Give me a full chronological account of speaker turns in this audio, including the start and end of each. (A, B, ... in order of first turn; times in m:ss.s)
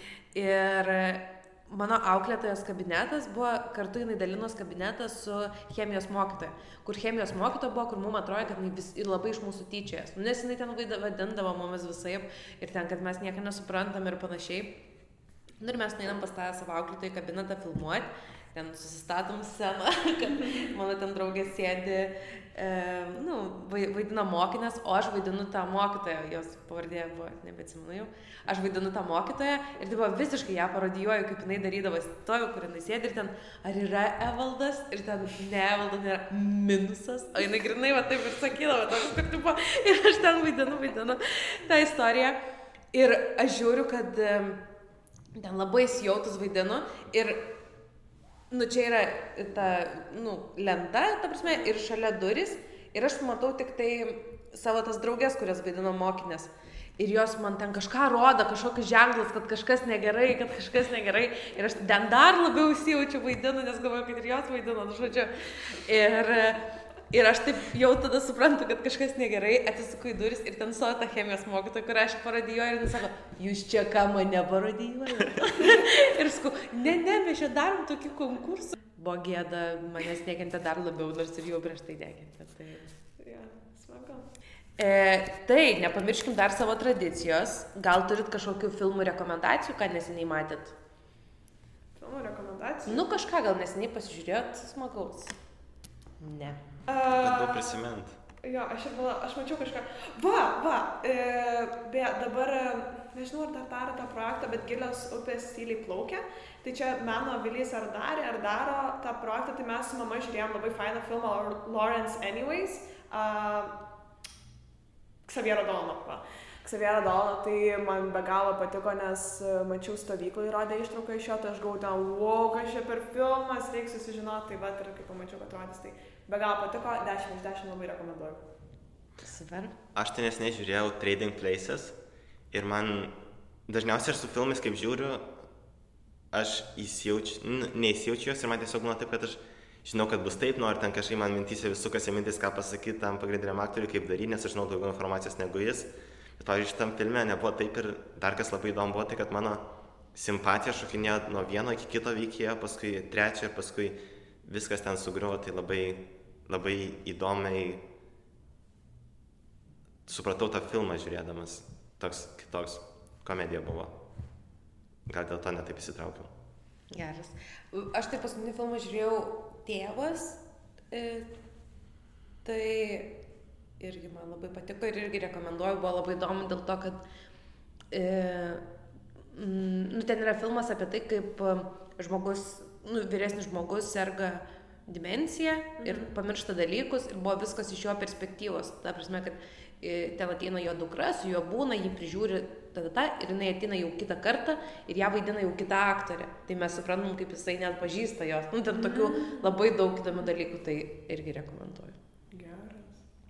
0:00.3-0:14.8 A
0:15.6-0:42.4 A
0:42.9-0:44.6 A
0:45.4-0:47.4 A
0:48.5-1:22.9 A
1:23.2-1:24.3 B
1:24.8-1:30.8 A
1:32.0-1:33.1 B
1:32.9-1:35.4 A
1:36.2-1:36.6 A
1:36.9-1:37.8 B
1:37.1-1:38.2 C
1:38.4-1:53.8 B
1:55.3-2:08.4 B
2:09.2-2:09.8 A
2:09.9-2:12.0 C
2:12.5-2:13.1 C
2:13.7-2:15.3 C
2:16.3-2:29.6 C
2:30.1-2:37.8 C
2:40.1-2:44.0 C
2:45.1-2:46.3 C
2:46.9-2:50.4 A
2:50.9-2:51.3 A
2:52.4-2:53.1 A
2:53.8-2:57.0 A
2:57.9-2:58.6 A
2:59.3-3:22.0 A
3:05.8-3:06.1 B
3:18.7-3:19.4 B
3:22.3-3:23.0 B